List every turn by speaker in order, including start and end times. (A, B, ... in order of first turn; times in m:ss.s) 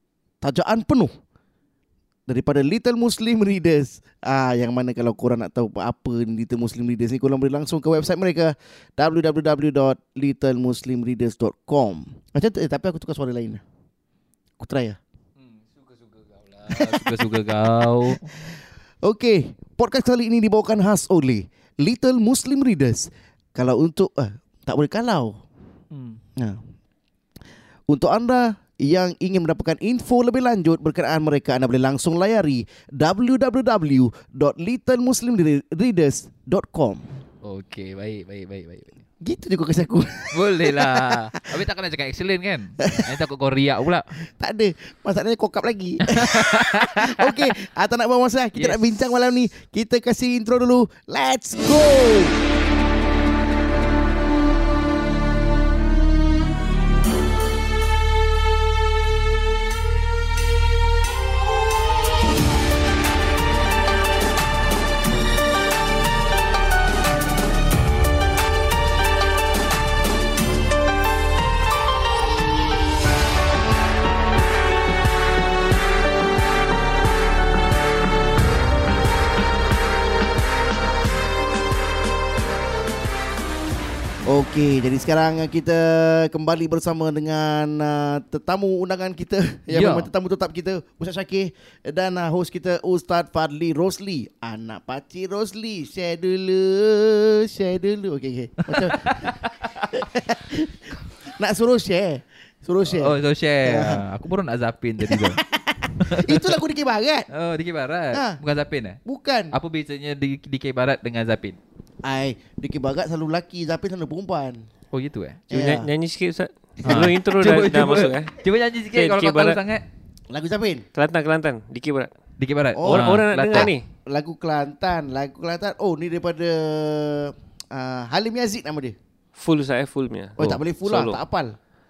0:00.4-0:01.1 A
0:02.3-0:13.6 A
0:14.6-0:15.0 A
0:15.4-0:18.5 B
0:16.7-0:17.3 A
0:18.0-0:25.4 A
0:25.9-0:26.2 B
0:26.4-0:26.7 A
0:27.9-0:37.1 A
0:37.4-0:39.0 B
0:39.2-0:41.4 A
0:40.3-0:44.2 B
0:44.1-0:52.4 A
0:46.0-0:47.5 B
0:48.6-0:49.0 B
1:24.2-1:44.0 A
1:29.7-1:30.1 B
1:38.6-1:40.0 B
1:42.8-1:45.4 B
1:45.0-1:47.3 A
1:46.0-1:46.6 B
1:47.3-1:49.0 B
1:48.1-1:48.4 A
1:49.0-1:49.5 A
1:49.5-1:51.6 B
1:52.0-1:54.7 A
1:54.9-1:55.4 B
1:55.5-1:55.9 A
1:55.5-1:58.4 C
1:56.8-1:57.1 A
1:56.8-1:59.8 B
1:58.9-1:59.6 C
2:00.3-2:00.9 A
2:00.9-2:02.1 C
2:02.4-2:03.7 B
2:02.8-2:09.0 A
2:02.8-2:03.8 C
2:09.4-2:11.2 C
2:10.4-2:11.6 A